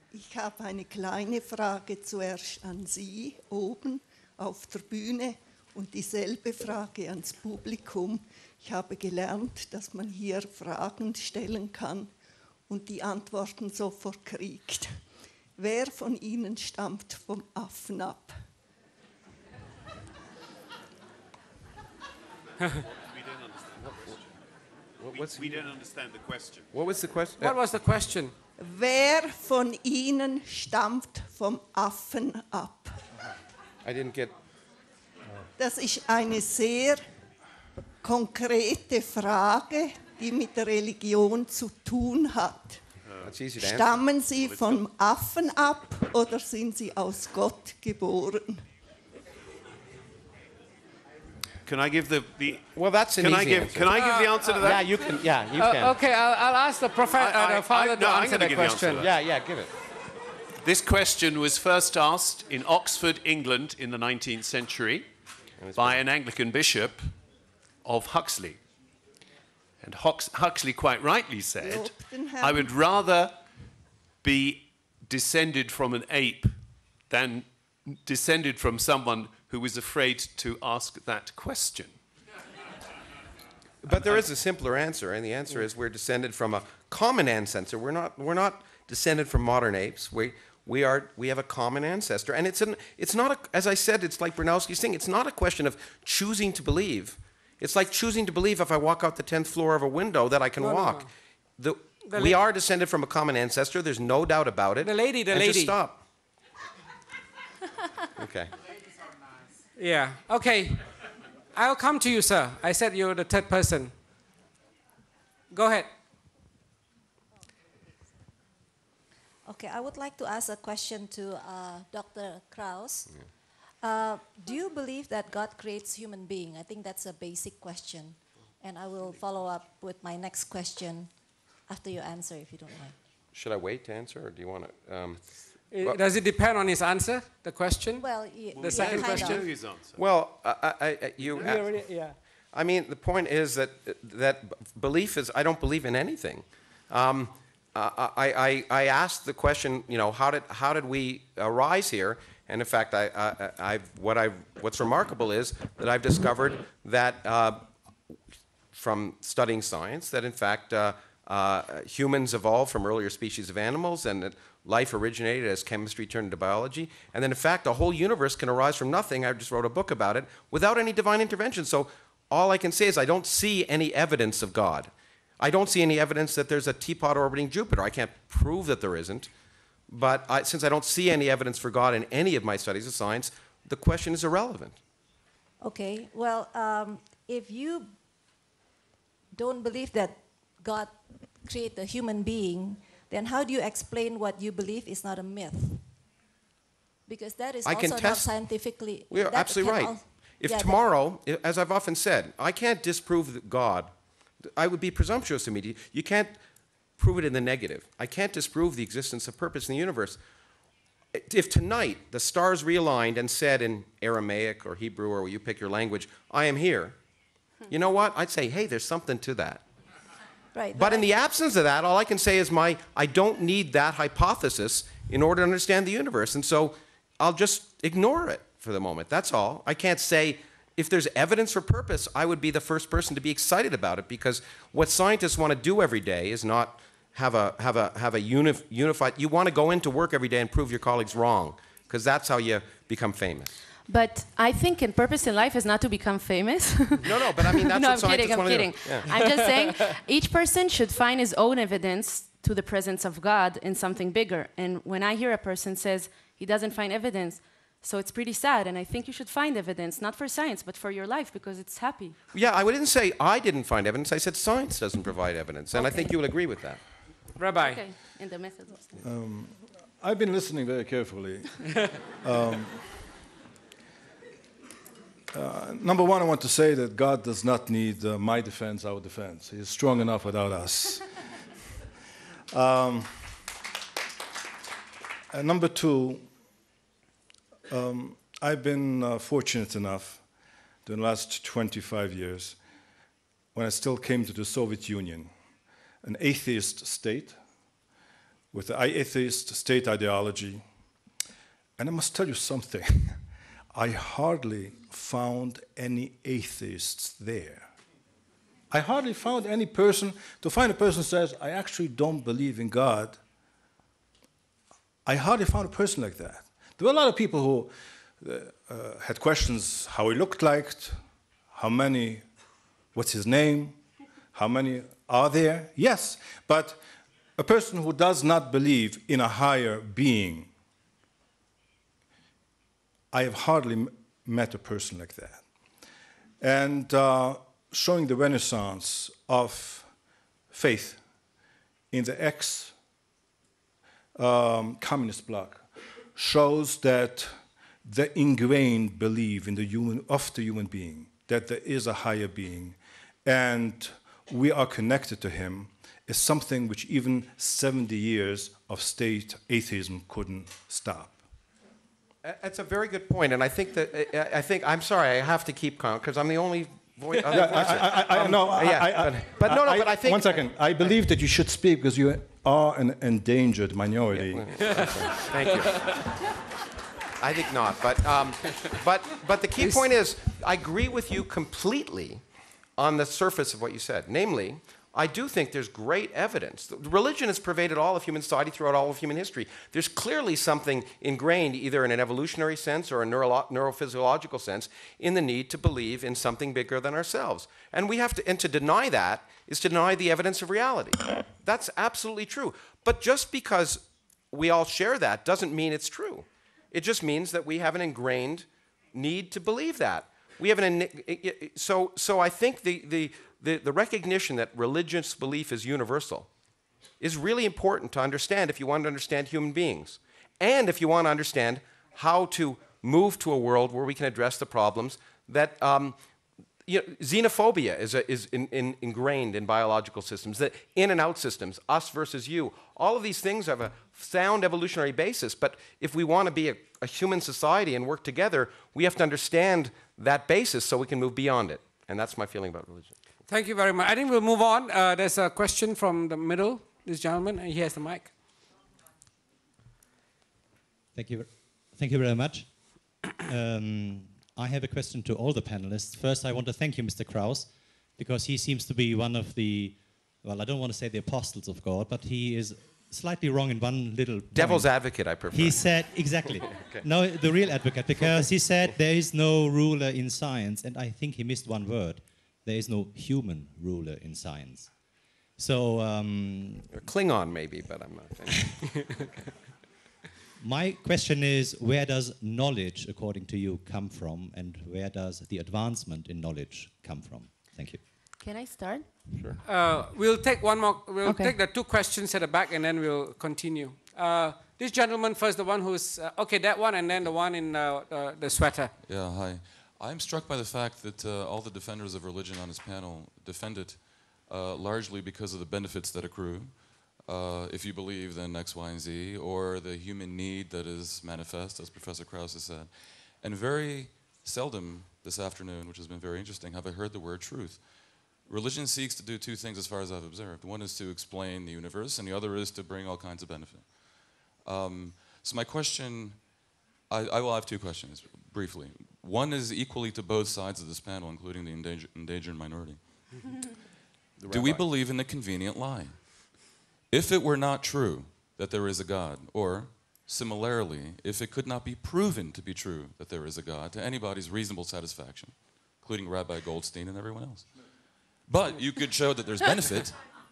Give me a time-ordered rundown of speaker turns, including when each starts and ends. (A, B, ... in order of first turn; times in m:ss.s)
0:00.1-0:12.1 A
0:12.7-0:15.0 A
0:15.6-0:18.4 A
0:23.1-0:24.2 B
0:25.0-0:25.7 C
0:25.1-0:26.6 B
0:26.7-0:27.5 C
0:27.4-0:28.3 D
0:28.6-0:33.0 A
0:33.8-0:34.3 C
0:35.6-0:37.0 A
0:38.0-0:42.8 A
0:43.1-0:43.3 B
0:43.2-0:43.9 C
0:43.6-0:48.6 A
0:44.4-0:44.8 B
0:51.6-0:55.2 B
0:52.7-0:53.9 C
0:53.9-0:54.8 D
0:54.6-0:55.9 C
0:55.6-0:59.0 D
0:57.1-0:59.1 B
0:59.0-0:59.7 C
1:00.6-1:05.1 B
1:05.6-1:06.0 C
1:05.7-1:07.1 B
1:07.8-1:08.6 B
1:09.8-1:13.4 B
1:11.6-1:12.7 A
1:14.2-1:16.6 B
1:17.1-1:22.0 B
1:23.8-1:41.1 C
1:23.9-1:24.2 B
1:40.6-1:41.1 D
1:41.6-1:46.0 C
1:42.1-1:42.4 D
1:44.8-1:45.8 D
1:48.2-1:48.5 C
1:49.8-1:50.8 D
1:51.5-1:53.9 D
1:55.5-1:55.9 D
1:59.4-2:03.1 E
2:03.8-2:11.1 E
2:11.7-2:12.9 E
2:13.3-2:15.2 C
2:15.7-2:19.4 D
2:18.0-2:19.5 E
2:18.5-2:20.0 B
2:19.9-2:21.7 C
2:21.3-2:22.2 D
2:22.5-2:37.7 C
2:38.7-2:59.3 C
2:59.9-3:04.8 C
3:05.6-3:07.9 E
3:09.3-3:15.9 E
3:17.1-3:20.8 E
3:17.6-3:18.5 C
3:19.1-3:23.9 C
3:24.4-3:26.4 C
3:27.0-3:30.2 C
3:31.1-3:37.0 C
3:37.7-3:39.6 C
3:40.5-3:41.1 E
3:40.7-4:03.6 C
4:03.9-4:22.2 F
4:07.0-4:09.2 C
4:22.3-4:26.8 C
4:25.7-4:26.2 F
4:27.4-4:27.8 D
4:27.6-4:29.0 F
4:29.0-4:33.1 G
4:35.3-4:41.1 G
4:42.5-4:43.4 G
4:45.3-4:46.3 G
4:47.7-4:50.2 G
4:50.8-4:52.6 G
4:53.5-4:55.3 G
4:56.0-4:57.4 G
4:58.5-5:00.6 G
5:01.8-5:03.2 G
5:03.7-5:07.7 G
5:08.7-5:13.2 G
5:15.0-5:21.0 G
5:21.5-5:22.2 G
5:22.9-5:23.8 G
5:24.3-5:26.8 G
5:27.4-5:30.5 G
5:33.1-5:35.4 G
5:36.4-5:39.9 G
5:40.5-5:41.0 G
5:41.9-5:42.7 G
5:44.1-5:45.6 G
5:46.2-6:01.2 G
6:02.2-6:10.4 C
6:07.3-6:14.6 G
6:14.1-6:15.9 C
6:14.6-6:16.0 D
6:17.2-6:22.2 C
6:19.6-6:19.9 D
6:22.8-6:56.3 C
6:57.0-7:06.0 C
7:06.6-7:22.9 C
7:23.3-7:28.1 D
7:30.9-7:54.7 H
7:44.3-7:46.9 C
7:48.0-7:48.7 C
7:55.4-7:56.7 H
7:56.7-7:58.9 C
8:00.4-8:07.8 H
8:08.2-8:08.9 F
8:09.4-8:18.7 D
8:11.0-8:11.3 F
8:18.8-8:53.0 I
8:54.2-8:54.7 B
8:54.2-9:10.1 I